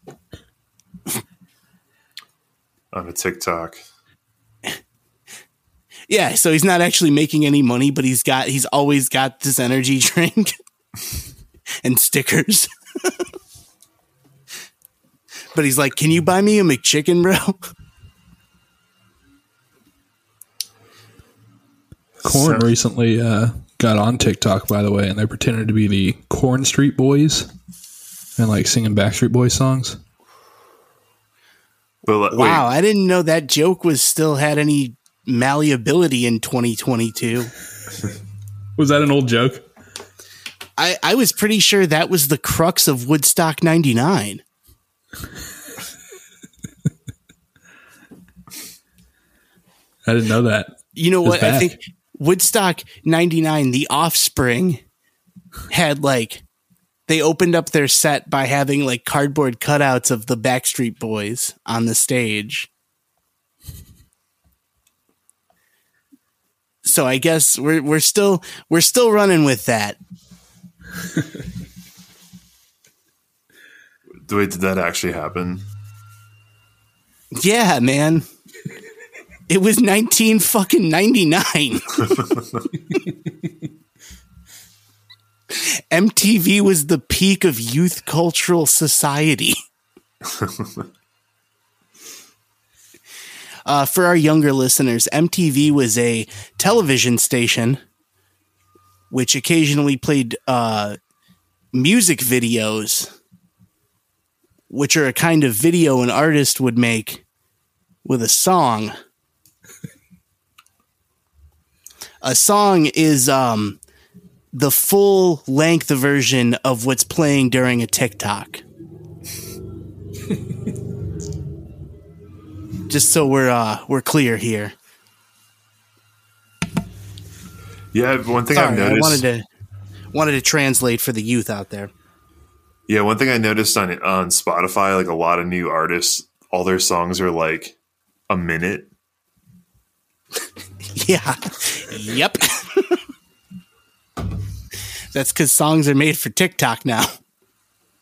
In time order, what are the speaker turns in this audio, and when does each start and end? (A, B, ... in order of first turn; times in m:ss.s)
0:02.9-0:03.8 A
0:06.1-0:10.5 B
0:11.8-0:13.2 B
0:15.5-0:17.6 B
0:22.2-0:22.7 A
0:22.2-0:27.5 C
0:28.4-0:30.0 C
0:32.1-0:32.7 A
0:32.3-0:37.5 B
0:38.8-0:39.6 C
0:40.8-0:44.4 B
0:50.0-0:51.8 C
0:51.0-0:54.8 B
0:55.7-0:56.4 B
0:57.1-1:02.7 B
1:06.8-1:10.0 B
1:14.3-1:15.6 A
1:17.4-1:18.2 B
1:19.5-1:22.2 B
1:25.6-1:29.6 B
1:30.4-1:30.7 A
1:33.7-1:37.8 B
1:39.1-1:41.0 B
1:41.7-1:43.1 B
1:44.7-1:47.2 B
1:48.0-1:48.9 B
1:52.2-1:53.8 B
1:54.5-1:58.6 B
2:02.9-2:04.7 B
2:07.9-2:09.2 A
2:08.6-2:09.4 B
2:10.1-2:11.9 B
2:12.9-2:17.8 A
2:18.3-2:18.9 A
2:21.0-2:23.0 B
2:25.1-2:27.1 B